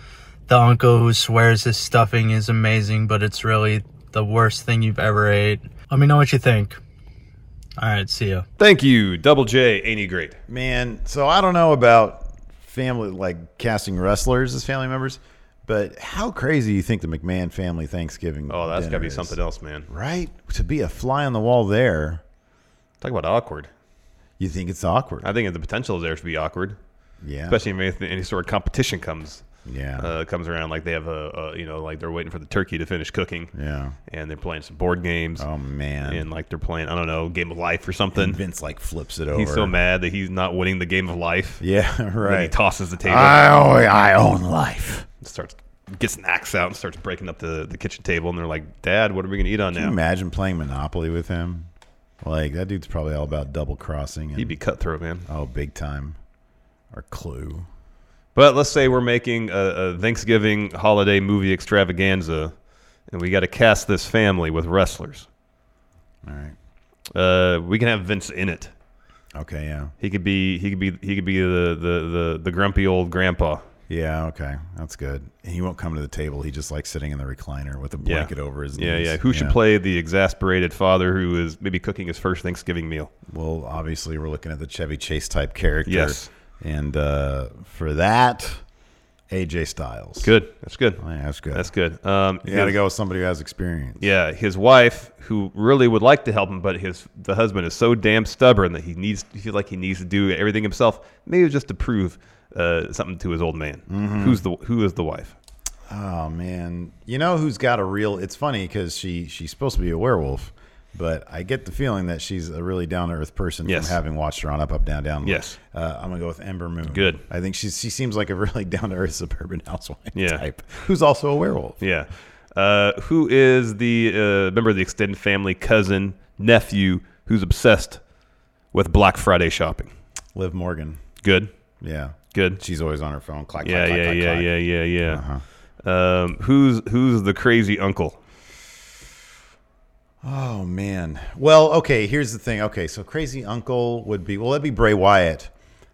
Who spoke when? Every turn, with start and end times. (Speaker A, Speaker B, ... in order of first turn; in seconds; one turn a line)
Speaker A: 0.5-6.8
Speaker A: 7.8-8.4
Speaker B: 8.6-10.4
Speaker C: 10.5-19.4
Speaker B: 18.5-19.9
Speaker C: 19.9-22.2
Speaker B: 23.0-23.7
Speaker C: 24.4-25.3
Speaker B: 25.2-26.8
Speaker C: 27.2-27.6
Speaker B: 27.5-29.4
Speaker C: 29.6-30.1
Speaker B: 30.0-33.5
Speaker C: 33.5-33.9
Speaker B: 34.1-35.5
Speaker C: 35.4-36.2
Speaker B: 36.0-38.4
Speaker C: 38.1-39.7
Speaker B: 39.3-41.6
Speaker C: 41.6-42.5
Speaker B: 42.2-43.4
Speaker C: 43.0-45.0
Speaker B: 45.2-49.9
Speaker C: 49.7-51.7
Speaker C: 52.2-54.5
Speaker B: 54.4-55.2
Speaker C: 55.3-56.2
Speaker C: 56.9-57.7
Speaker B: 58.3-62.5
Speaker B: 63.1-65.3
Speaker C: 66.2-66.5
Speaker B: 67.1-68.7
Speaker C: 69.3-69.9
Speaker B: 70.0-73.6
Speaker C: 73.9-79.6
Speaker B: 78.0-83.1
Speaker C: 83.3-88.6
Speaker B: 85.8-86.3
Speaker C: 89.3-90.3
Speaker B: 90.2-91.0
Speaker C: 91.0-91.7
Speaker B: 91.5-92.8
Speaker C: 92.4-94.0
Speaker B: 94.0-105.3
Speaker C: 103.9-104.4
Speaker C: 105.9-121.8
Speaker B: 113.6-114.0
Speaker B: 115.2-115.6
Speaker B: 116.9-117.2
Speaker B: 120.1-120.4
Speaker B: 121.8-128.0
Speaker B: 128.7-129.9
Speaker C: 130.3-131.0
Speaker B: 131.2-131.5
Speaker C: 131.8-134.5
Speaker B: 132.3-132.6
Speaker B: 133.6-135.2
Speaker C: 135.1-135.4
Speaker B: 135.8-138.2
Speaker C: 140.2-145.5